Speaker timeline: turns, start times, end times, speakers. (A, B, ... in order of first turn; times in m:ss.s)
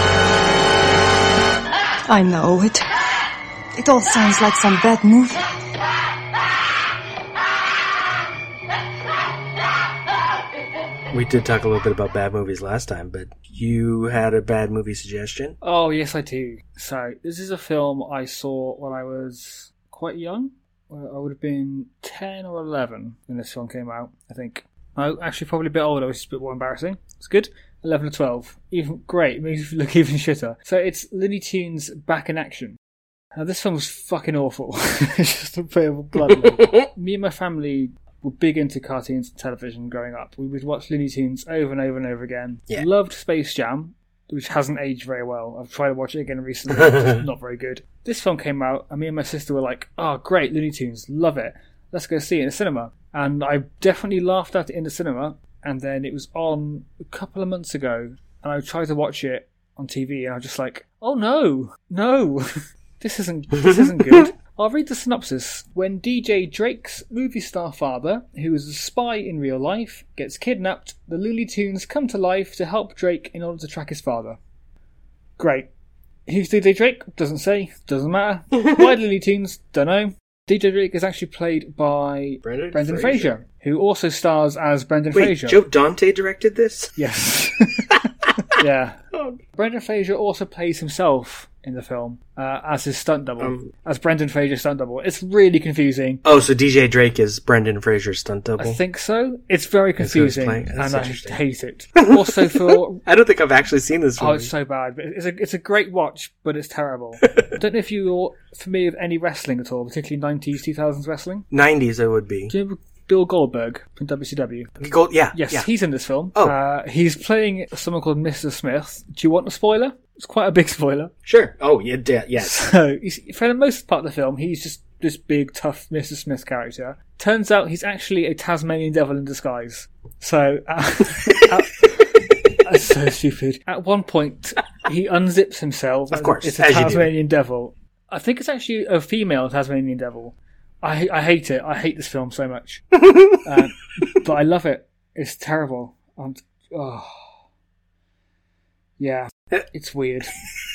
0:02.1-0:02.8 A
0:03.8-0:05.4 A
0:11.1-0:15.6 B
0:15.6-0:32.8 C
0:33.3-1:14.4 C
0:36.3-0:36.9 B
0:46.7-0:47.2 B
1:03.6-1:04.3 B
1:15.4-1:15.7 C
1:16.3-1:25.6 C
1:22.4-1:23.4 B
1:25.1-1:26.9 B
1:27.0-1:28.0 C
1:28.5-1:29.0 C
1:29.1-1:29.4 B
1:29.5-1:36.2 C
1:33.4-1:33.7 B
1:36.2-1:38.8 B
1:38.6-1:43.0 C
1:40.0-1:41.4 B
1:42.0-1:44.5 B
1:44.2-1:51.4 C
1:51.5-1:52.5 B
1:52.5-1:54.7 C
1:54.8-1:55.7 B
1:55.3-2:01.1 C
2:01.2-2:02.6 B
2:02.4-2:12.1 C
2:12.6-2:22.8 C
2:16.1-2:17.1 B
2:23.4-2:27.3 C
2:29.0-2:30.3 C